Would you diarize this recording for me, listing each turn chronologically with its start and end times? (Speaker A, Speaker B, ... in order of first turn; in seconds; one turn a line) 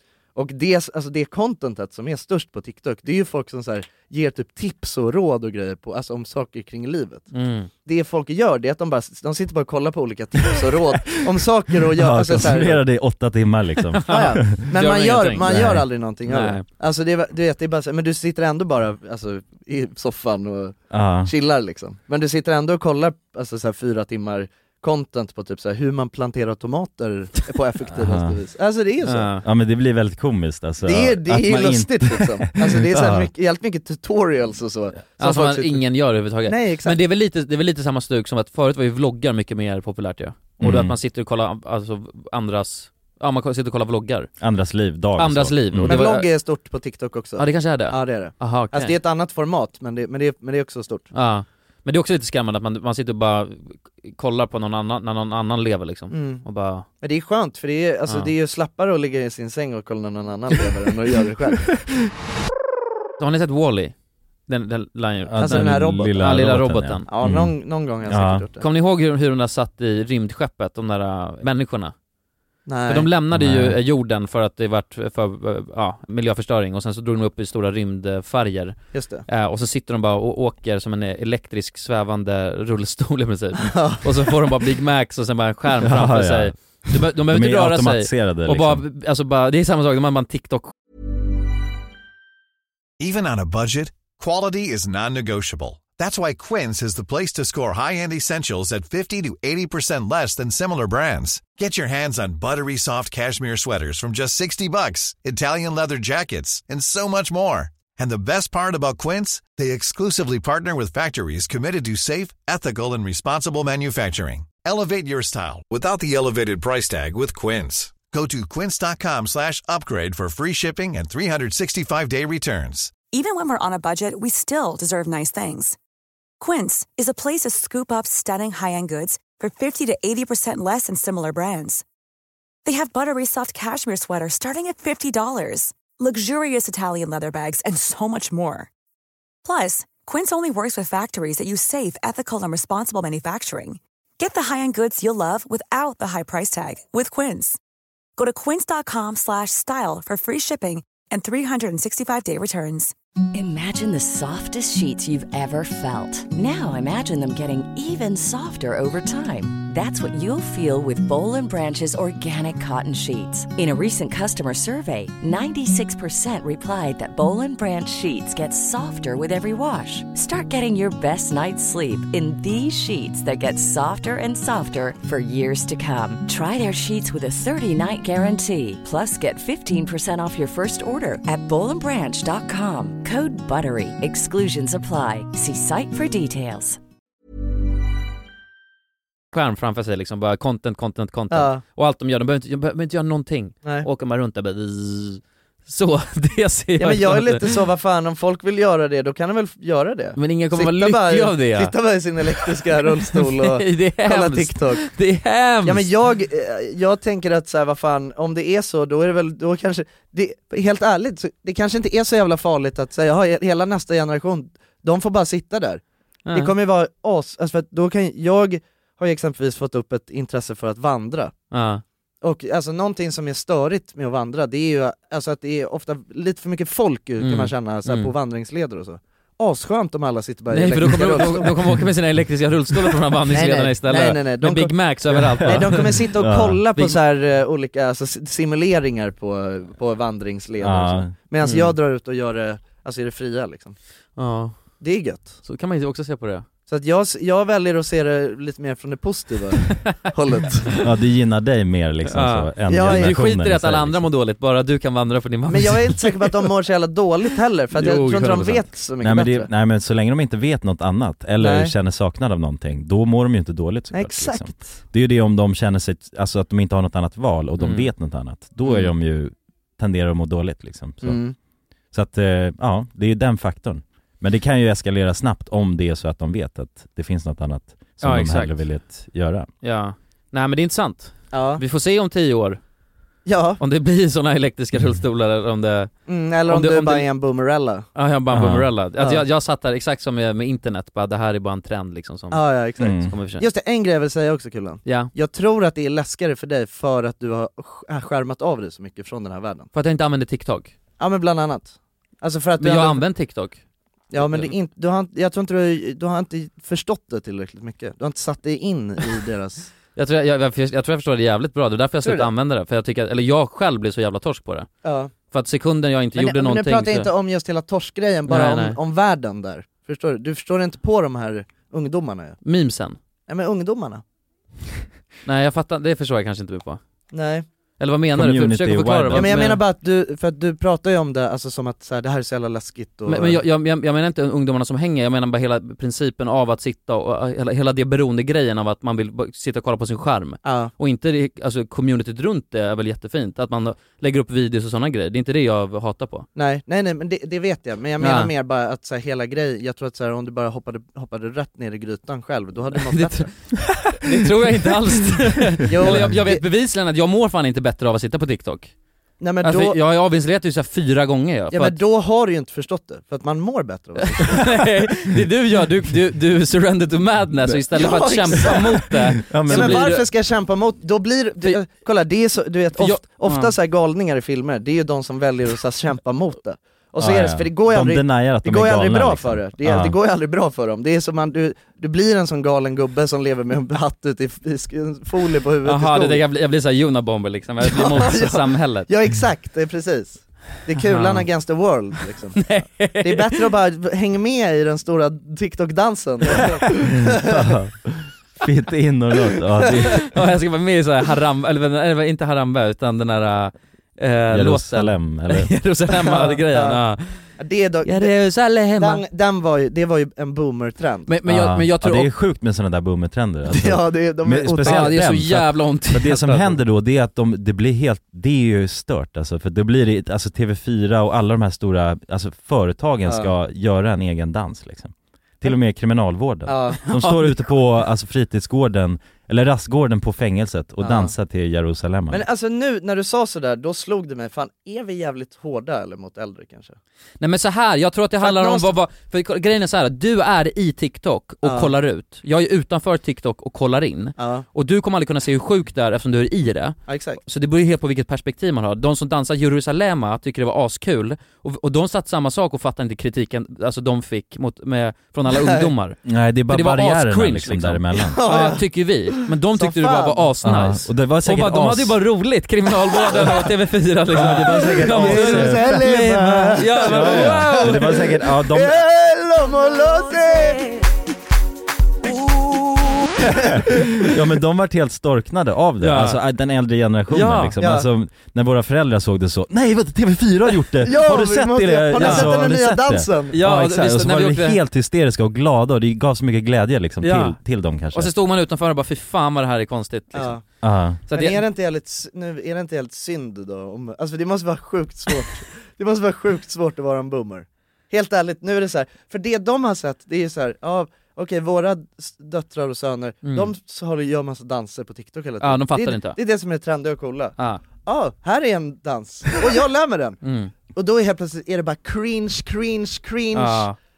Speaker A: 0.3-7.3
Speaker B: 7.3-7.7
Speaker A: 7.8-12.8
Speaker C: 11.9-14.6
Speaker B: 13.9-15.7
Speaker A: 14.1-29.3
Speaker C: 15.5-15.8
Speaker B: 16.3-16.6
Speaker C: 20.9-21.3
Speaker C: 27.9-28.4
Speaker B: 29.1-29.4
Speaker C: 29.4-33.3
Speaker A: 30.8-35.8
Speaker B: 35.2-44.3
Speaker A: 36.5-37.0
Speaker C: 40.6-41.0
Speaker C: 44.4-46.0
Speaker B: 45.2-46.3
Speaker A: 45.9-51.1
Speaker B: 47.4-49.0
Speaker B: 51.1-56.9
Speaker A: 56.1-56.4
Speaker A: 57.0-61.6
Speaker B: 63.2-64.0
Speaker B: 64.5-67.1
Speaker C: 65.2-67.5
Speaker A: 65.4-66.2
Speaker A: 67.1-68.6
Speaker C: 68.1-68.4
Speaker B: 68.6-71.9
Speaker A: 72.7-73.1
Speaker B: 72.9-90.7
Speaker C: 73.3-73.8
Speaker A: 78.9-79.2
Speaker A: 83.6-84.3
Speaker C: 85.8-86.5
Speaker C: 87.3-88.8
Speaker D: 93.0-123.0
Speaker E: 123.0-125.8
Speaker E: 126.4-131.8
Speaker E: 132.7-138.7
Speaker E: 139.4-147.6
Speaker E: 148.2-152.9
Speaker F: 153.3-186.8
Speaker B: 189.3-197.6
Speaker A: 191.3-191.6
Speaker A: 196.8-204.9
Speaker B: 200.2-201.8
Speaker B: 203.1-205.9
Speaker A: 205.7-221.3
Speaker B: 216.3-216.5
Speaker B: 221.5-221.8
Speaker A: 222.2-231.6
Speaker B: 227.2-228.1
Speaker B: 230.5-236.1
Speaker A: 233.3-234.9
Speaker A: 235.4-243.8
Speaker C: 235.4-236.6
Speaker C: 240.6-241.1
Speaker B: 241.4-241.8
Speaker B: 244.2-244.7
Speaker A: 244.8-245.3
Speaker B: 245.4-246.4
Speaker A: 246.7-250.7
Speaker C: 250.8-254.1
Speaker B: 252.1-256.5
Speaker A: 252.7-253.2
Speaker A: 255.5-259.5
Speaker B: 257.7-258.7
Speaker C: 259.0-271.2
Speaker A: 261.4-261.7
Speaker A: 263.9-264.8
Speaker B: 267.6-267.9
Speaker A: 271.0-271.4
Speaker C: 271.9-279.5
Speaker B: 278.0-278.6
Speaker B: 279.6-282.6
Speaker A: 281.3-281.6
Speaker A: 283.3-283.6
Speaker B: 283.6-287.1
Speaker A: 286.1-287.9
Speaker B: 287.9-292.5
Speaker C: 288.3-288.7
Speaker A: 292.3-299.7
Speaker C: 292.8-293.1
Speaker B: 293.1-293.4
Speaker B: 294.9-295.1
Speaker B: 299.7-300.7
Speaker A: 301.0-303.0
Speaker B: 302.6-303.6
Speaker A: 304.1-309.7
Speaker B: 304.2-304.5
Speaker B: 310.0-314.7
Speaker A: 312.0-312.3
Speaker A: 314.8-315.1
Speaker B: 315.3-317.1
Speaker A: 316.1-322.4
Speaker B: 318.3-318.8
Speaker B: 322.4-323.0
Speaker A: 323.3-324.0
Speaker B: 325.2-326.8
Speaker A: 327.1-327.4
Speaker B: 327.8-329.6
Speaker C: 328.1-329.5
Speaker A: 329.1-333.4
Speaker B: 333.1-346.3
Speaker A: 340.4-340.7
Speaker A: 346.4-353.3
Speaker B: 348.0-348.3
Speaker B: 352.7-358.7
Speaker A: 355.7-356.4
Speaker A: 359.2-359.8
Speaker B: 359.4-361.8
Speaker A: 361.5-364.4
Speaker B: 364.2-370.1
Speaker A: 367.7-368.9
Speaker C: 369.2-370.0
Speaker A: 369.5-386.2
Speaker B: 372.8-373.5
Speaker C: 377.0-379.9
Speaker B: 385.6-388.9
Speaker A: 387.7-397.4
Speaker B: 390.8-391.3
Speaker B: 392.4-393.5
Speaker C: 396.8-400.1
Speaker B: 399.9-407.3
Speaker C: 404.3-405.5
Speaker A: 406.0-406.8
Speaker A: 407.4-408.1
Speaker B: 407.8-409.1
Speaker A: 408.8-411.1
Speaker B: 411.1-412.1
Speaker C: 411.3-432.2
Speaker A: 413.5-414.9
Speaker B: 414.6-416.6
Speaker A: 426.5-427.5
Speaker A: 430.8-431.1
Speaker A: 432.1-436.8
Speaker B: 437.2-468.0
Speaker A: 438.2-438.8
Speaker A: 441.4-441.7
Speaker A: 444.2-444.5
Speaker A: 446.9-447.2
Speaker A: 455.3-455.7
Speaker C: 456.1-458.5
Speaker A: 458.2-458.6
Speaker A: 459.5-460.3
Speaker C: 460.4-462.0
Speaker C: 464.1-465.9
Speaker A: 464.2-470.8
Speaker C: 466.7-468.8
Speaker A: 473.2-473.6
Speaker C: 474.1-488.1
Speaker B: 475.8-476.2
Speaker B: 477.1-477.6
Speaker A: 477.6-477.9
Speaker A: 480.8-483.4
Speaker B: 482.0-482.3
Speaker B: 483.3-484.6
Speaker B: 487.0-487.4
Speaker B: 487.9-490.4
Speaker A: 490.1-490.4
Speaker C: 490.6-491.0
Speaker B: 491.1-491.4
Speaker A: 491.1-510.2
Speaker B: 503.2-503.5
Speaker B: 505.4-506.2
Speaker B: 510.2-510.5
Speaker A: 510.7-513.7
Speaker B: 513.3-513.8